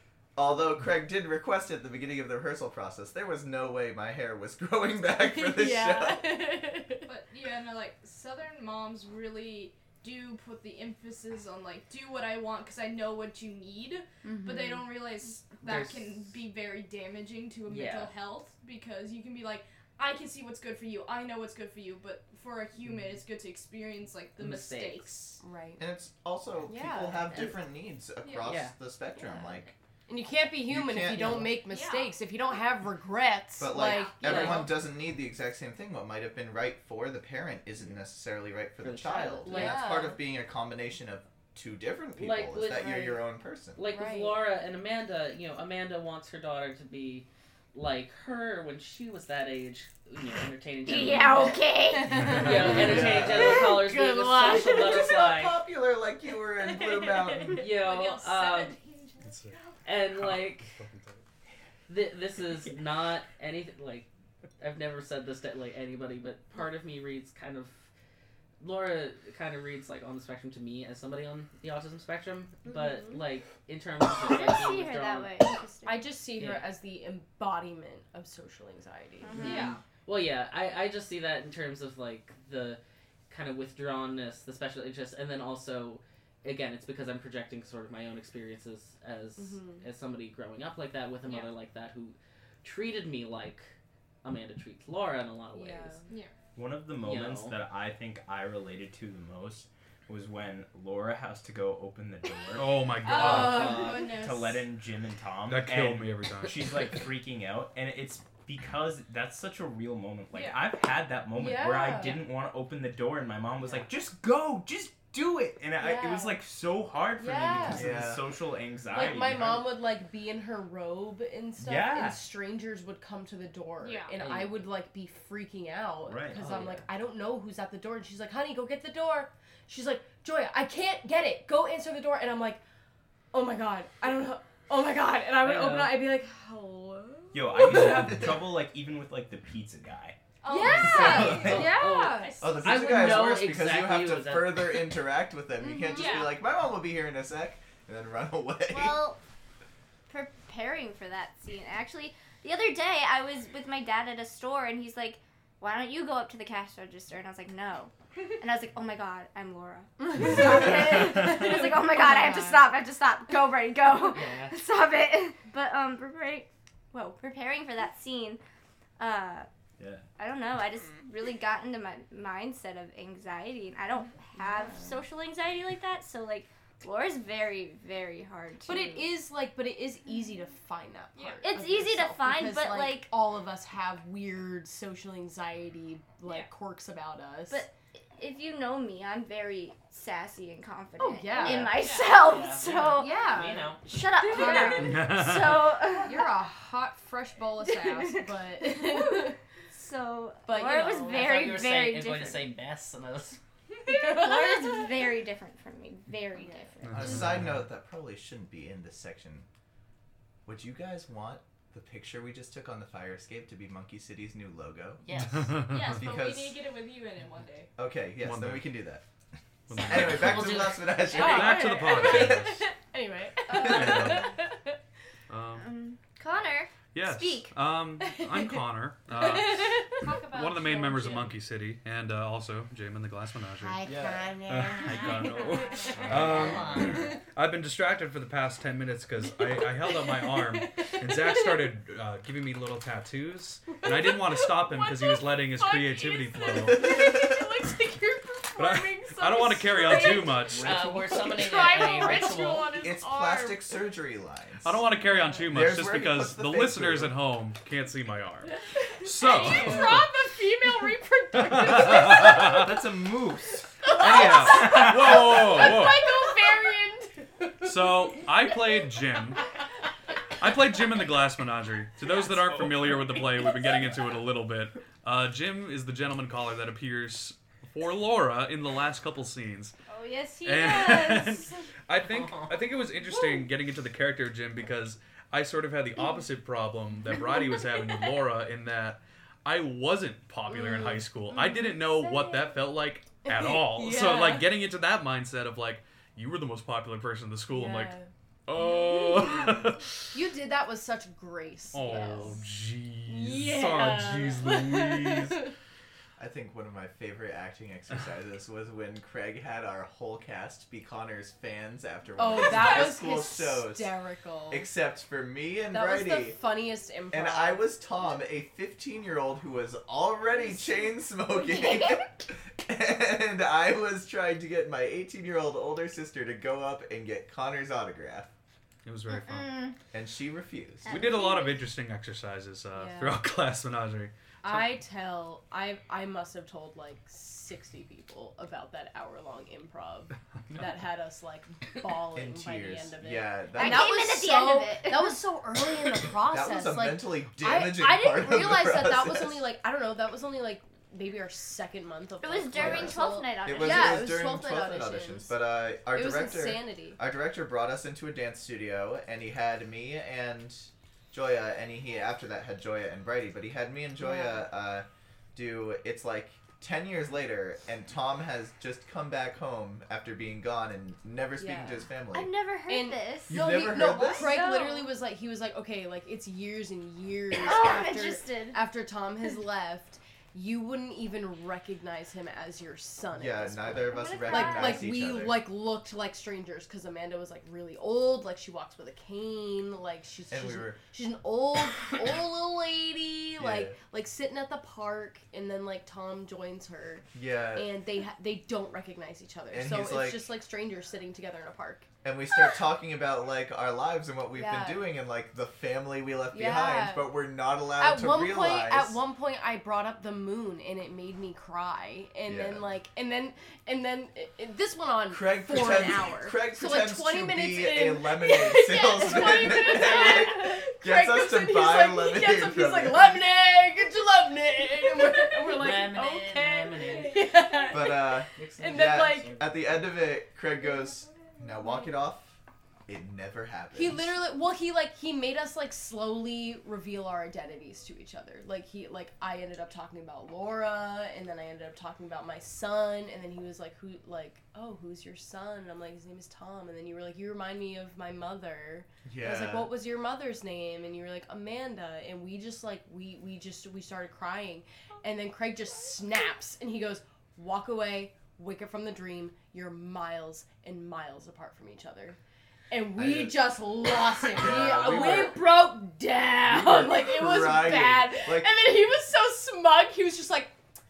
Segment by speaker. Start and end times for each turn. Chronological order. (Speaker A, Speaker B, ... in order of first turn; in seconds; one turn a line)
Speaker A: 0.4-6.5
Speaker B: 5.2-7.1
Speaker C: 7.0-25.4
Speaker D: 14.3-14.9
Speaker E: 15.6-16.4
Speaker E: 17.7-18.1
Speaker E: 24.4-25.4
Speaker B: 25.4-25.8
Speaker A: 25.8-29.7
Speaker B: 26.7-27.5
Speaker C: 28.2-28.6
Speaker E: 28.4-28.7
Speaker B: 30.1-34.7
Speaker A: 30.7-31.6
Speaker E: 31.2-31.5
Speaker C: 31.6-32.2
Speaker A: 33.6-43.8
Speaker C: 33.7-34.6
Speaker E: 34.2-34.7
Speaker E: 38.8-39.9
Speaker B: 39.5-40.2
Speaker E: 42.2-43.2
Speaker E: 43.8-51.6
Speaker B: 43.9-44.4
Speaker D: 50.9-52.4
Speaker B: 51.9-55.1
Speaker E: 52.2-55.6
Speaker A: 52.6-53.8
Speaker A: 54.4-57.6
Speaker B: 56.7-57.5
Speaker C: 57.5-59.9
Speaker E: 57.6-58.8
Speaker F: 59.2-61.2
Speaker E: 59.8-60.8
Speaker E: 61.9-64.1
Speaker E: 64.6-67.9
Speaker E: 68.6-75.3
Speaker D: 72.7-73.1
Speaker D: 74.2-76.1
Speaker B: 75.9-79.6
Speaker E: 76.4-76.7
Speaker D: 79.2-79.8
Speaker E: 79.4-96.0
Speaker C: 79.4-79.8
Speaker B: 89.4-89.8
Speaker C: 91.2-91.5
Speaker B: 95.5-96.1
Speaker C: 96.1-96.3
Speaker G: 96.5-119.8
Speaker E: 97.0-97.6
Speaker F: 102.5-103.8
Speaker C: 103.0-104.7
Speaker F: 105.5-106.8
Speaker C: 110.3-110.7
Speaker B: 111.3-112.2
Speaker B: 115.8-116.4
Speaker B: 117.2-117.9
Speaker A: 117.7-118.2
Speaker B: 118.9-132.6
Speaker G: 121.6-122.2
Speaker C: 123.8-124.2
Speaker E: 124.2-124.6
Speaker G: 126.0-126.5
Speaker E: 126.4-126.9
Speaker B: 133.3-138.3
Speaker E: 135.4-136.0
Speaker G: 137.3-140.2
Speaker C: 140.4-143.4
Speaker B: 140.5-142.3
Speaker E: 140.6-144.8
Speaker G: 140.8-141.9
Speaker A: 142.4-149.0
Speaker B: 145.6-146.3
Speaker C: 145.9-146.3
Speaker D: 148.7-149.2
Speaker D: 150.1-168.4
Speaker B: 160.0-162.7
Speaker G: 161.0-161.3
Speaker E: 164.0-164.6
Speaker D: 169.0-169.5
Speaker G: 169.8-170.1
Speaker D: 170.2-179.1
Speaker B: 174.4-174.9
Speaker B: 178.7-187.7
Speaker C: 181.2-181.5
Speaker D: 181.4-183.1
Speaker C: 186.2-186.5
Speaker D: 187.5-196.4
Speaker B: 191.0-192.0
Speaker C: 191.5-192.3
Speaker E: 191.5-193.8
Speaker B: 193.0-195.1
Speaker F: 194.8-195.8
Speaker B: 196.0-199.4
Speaker D: 197.6-202.5
Speaker B: 200.5-201.7
Speaker E: 201.1-203.4
Speaker B: 203.9-204.9
Speaker D: 203.9-207.3
Speaker B: 206.4-206.7
Speaker F: 206.8-207.7
Speaker A: 206.9-209.5
Speaker A: 210.5-215.0
Speaker E: 215.0-215.7
Speaker F: 215.3-216.1
Speaker C: 215.7-217.7
Speaker A: 216.0-216.6
Speaker A: 217.8-219.0
Speaker F: 218.2-218.7
Speaker F: 219.7-222.7
Speaker A: 219.8-222.5
Speaker E: 219.8-221.2
Speaker B: 221.1-224.8
Speaker A: 223.6-224.1
Speaker F: 223.6-224.3
Speaker F: 225.3-225.7
Speaker D: 225.6-227.5
Speaker F: 226.9-233.9
Speaker B: 228.0-231.2
Speaker C: 230.0-231.3
Speaker G: 233.8-234.4
Speaker D: 233.9-236.7
Speaker B: 233.9-237.1
Speaker F: 234.5-247.1
Speaker G: 235.9-237.0
Speaker E: 236.1-237.0
Speaker B: 239.8-241.7
Speaker B: 243.8-253.7
Speaker C: 246.0-246.7
Speaker A: 246.9-247.3
Speaker F: 248.6-250.8
Speaker C: 249.8-250.4
Speaker E: 250.6-252.7
Speaker G: 250.7-251.1
Speaker C: 251.7-252.6
Speaker A: 252.8-254.8
Speaker F: 254.6-260.1
Speaker B: 255.1-255.5
Speaker A: 255.5-257.2
Speaker B: 258.8-262.7
Speaker C: 259.1-260.1
Speaker F: 261.3-262.7
Speaker G: 262.3-265.3
Speaker B: 263.8-268.5
Speaker F: 264.0-266.1
Speaker C: 265.4-266.5
Speaker F: 267.6-269.5
Speaker F: 270.4-279.8
Speaker G: 272.1-273.2
Speaker D: 279.9-281.4
Speaker F: 280.4-297.9
Speaker B: 280.7-281.3
Speaker E: 282.0-282.6
Speaker B: 290.5-292.6
Speaker B: 293.3-294.5
Speaker B: 297.5-299.5
Speaker F: 298.5-299.9
Speaker B: 300.1-302.4
Speaker F: 301.7-305.4
Speaker B: 303.1-305.5
Speaker A: 306.2-313.9
Speaker B: 312.2-314.7
Speaker A: 314.5-316.4
Speaker B: 315.7-317.7
Speaker A: 317.1-328.3
Speaker D: 321.3-322.1
Speaker F: 328.9-329.6
Speaker D: 329.1-329.8
Speaker A: 329.9-330.9
Speaker D: 330.9-331.7
Speaker F: 330.9-334.7
Speaker B: 332.7-333.2
Speaker B: 334.4-355.4
Speaker A: 342.1-343.9
Speaker D: 343.5-345.2
Speaker A: 346.3-349.5
Speaker D: 352.2-354.1
Speaker A: 352.6-372.3
Speaker B: 355.9-357.0
Speaker B: 364.0-364.5
Speaker B: 371.4-371.9
Speaker D: 372.1-373.4
Speaker B: 372.7-401.9
Speaker A: 373.3-374.4
Speaker D: 374.1-374.9
Speaker D: 377.3-378.6
Speaker A: 383.2-385.5
Speaker D: 383.9-384.9
Speaker A: 390.3-390.8
Speaker A: 393.4-393.8
Speaker A: 397.1-397.7
Speaker A: 399.5-400.3
Speaker A: 402.0-409.0
Speaker B: 404.3-404.9
Speaker B: 406.3-407.1
Speaker B: 407.8-429.4
Speaker A: 412.3-412.7
Speaker A: 415.1-423.3
Speaker E: 425.5-427.2
Speaker A: 427.7-434.2
Speaker E: 428.4-429.5
Speaker B: 433.7-462.2
Speaker A: 449.1-449.7
Speaker B: 462.7-470.5
Speaker A: 463.0-463.5
Speaker A: 464.3-465.4
Speaker A: 466.5-468.5